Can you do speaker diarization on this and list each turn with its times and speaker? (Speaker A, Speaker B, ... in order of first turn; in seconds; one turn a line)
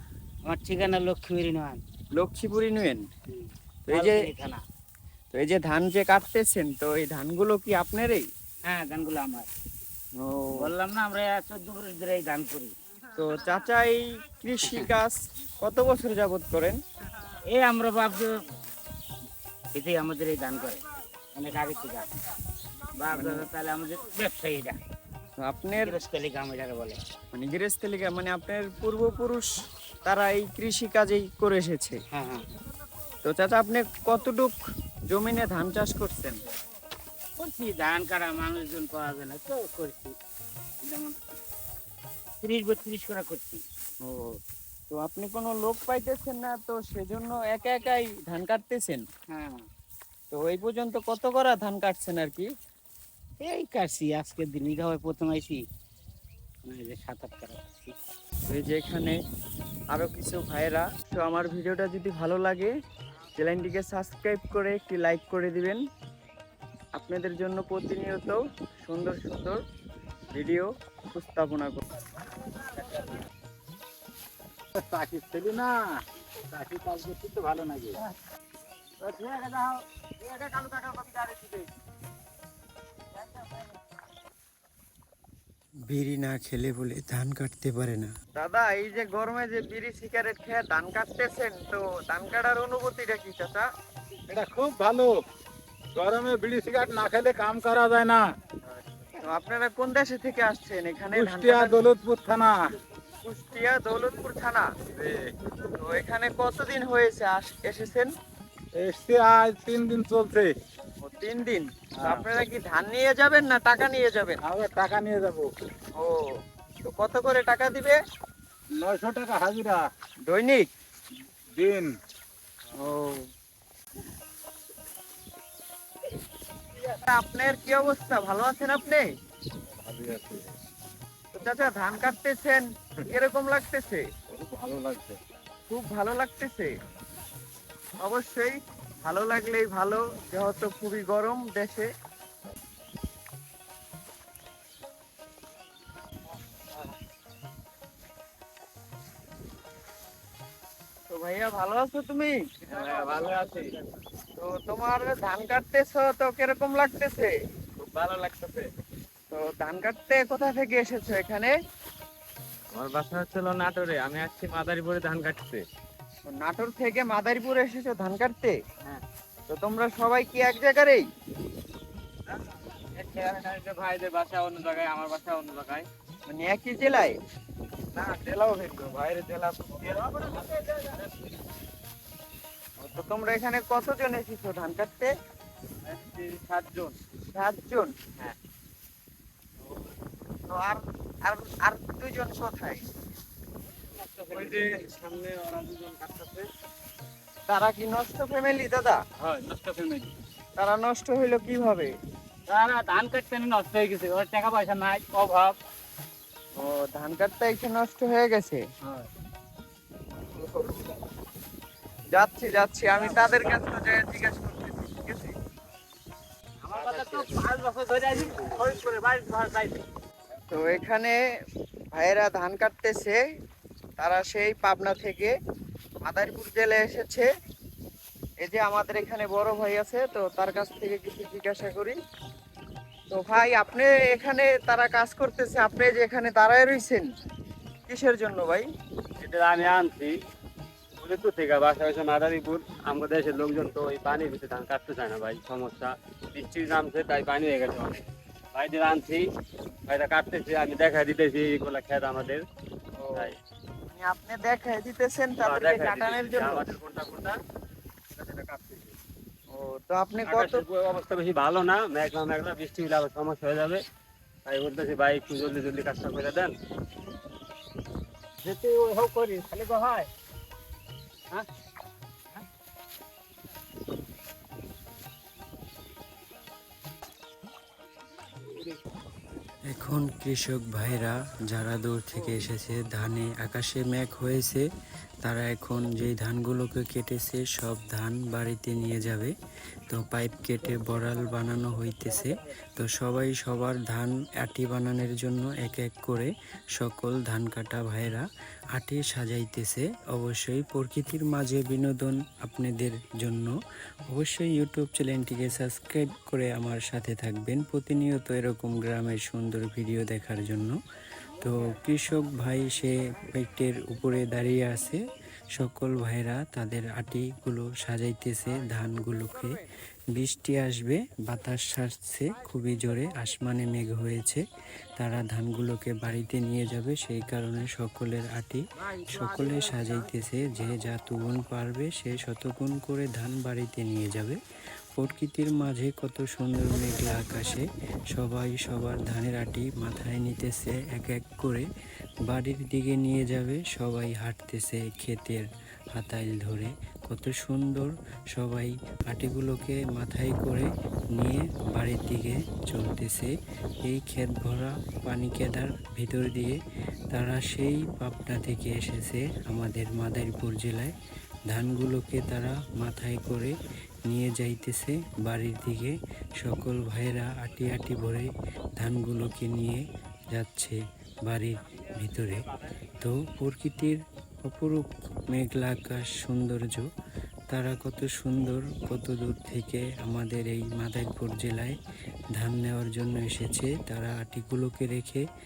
Speaker A: 0.4-1.8
Speaker B: 2.1-3.0
Speaker A: 3.3-4.6
Speaker B: 3.9-4.2
Speaker B: 5.3-8.2
Speaker A: 8.6-9.5
Speaker B: 10.2-10.7
Speaker A: 10.6-12.7
Speaker B: 13.2-16.8
Speaker A: 17.4-18.3
Speaker A: 19.7-20.8
Speaker A: 21.3-22.0
Speaker A: 23.0-24.8
Speaker B: 23.1-23.4
Speaker B: 25.4-26.0
Speaker A: 25.8-27.0
Speaker B: 27.3-29.5
Speaker B: 30.0-32.0
Speaker A: 32.1-32.5
Speaker B: 33.2-34.5
Speaker B: 35.1-36.4
Speaker A: 37.4-40.1
Speaker A: 40.8-41.1
Speaker A: 42.4-43.6
Speaker B: 44.0-44.3
Speaker B: 44.9-49.0
Speaker A: 49.3-49.6
Speaker B: 50.3-52.5
Speaker A: 53.4-55.6
Speaker A: 56.6-57.9
Speaker B: 58.5-59.2
Speaker B: 59.9-62.7
Speaker B: 63.4-65.8
Speaker B: 66.9-69.6
Speaker B: 70.3-71.8
Speaker C: 74.7-75.9
Speaker C: 76.5-78.0
Speaker C: 79.1-79.8
Speaker C: 80.3-81.6
Speaker D: 85.9-88.1
Speaker B: 88.3-93.7
Speaker C: 94.3-95.1
Speaker C: 95.9-98.2
Speaker B: 98.7-101.8
Speaker C: 101.1-102.5
Speaker B: 103.2-104.7
Speaker C: 105.0-105.3
Speaker B: 105.8-108.1
Speaker C: 108.7-110.5
Speaker B: 111.0-114.4
Speaker C: 112.0-112.2
Speaker C: 114.4-115.5
Speaker B: 116.9-118.0
Speaker C: 118.8-119.8
Speaker B: 120.3-120.7
Speaker C: 121.5-121.9
Speaker B: 122.7-123.2
Speaker B: 126.9-129.1
Speaker C: 129.8-130.5
Speaker B: 131.3-134.0
Speaker C: 134.3-135.2
Speaker B: 135.7-136.7
Speaker B: 138.0-141.9
Speaker B: 151.1-153.4
Speaker E: 152.7-153.7
Speaker B: 154.4-157.3
Speaker B: 159.3-161.5
Speaker E: 162.7-165.6
Speaker B: 166.3-168.6
Speaker B: 169.5-171.0
Speaker E: 173.0-175.8
Speaker B: 176.3-177.2
Speaker B: 178.1-179.9
Speaker B: 182.8-185.1
Speaker E: 186.0-186.9
Speaker B: 187.3-187.9
Speaker B: 190.5-192.8
Speaker E: 194.3-196.4
Speaker B: 197.5-199.0
Speaker A: 199.4-199.9
Speaker B: 200.6-201.9
Speaker A: 202.5-205.5
Speaker B: 206.6-208.6
Speaker B: 210.4-210.9
Speaker B: 212.1-215.3
Speaker A: 213.0-213.5
Speaker A: 216.6-219.8
Speaker B: 220.5-221.1
Speaker B: 221.9-223.2
Speaker B: 224.0-225.3
Speaker B: 226.0-227.3
Speaker B: 228.4-231.9
Speaker B: 233.1-237.0
Speaker B: 237.9-238.7
Speaker E: 239.2-240.1
Speaker E: 241.0-248.0
Speaker E: 248.5-249.2
Speaker E: 249.9-252.4
Speaker B: 253.0-253.3
Speaker B: 253.9-256.6
Speaker E: 255.4-257.4
Speaker E: 258.2-258.8
Speaker B: 259.5-260.6
Speaker E: 260.2-263.8
Speaker E: 264.4-266.5
Speaker A: 268.4-270.0
Speaker D: 279.7-284.6
Speaker D: 285.2-289.3
Speaker D: 289.9-303.5
Speaker D: 304.1-310.8
Speaker D: 311.4-315.0
Speaker D: 315.5-319.6
Speaker D: 320.1-324.4
Speaker D: 325.0-334.4
Speaker D: 334.9-341.6
Speaker D: 342.2-353.3
Speaker D: 353.8-356.6
Speaker D: 357.1-360.9
Speaker D: 361.5-363.5
Speaker D: 364.1-376.9
Speaker D: 377.5-381.8
Speaker D: 382.4-385.2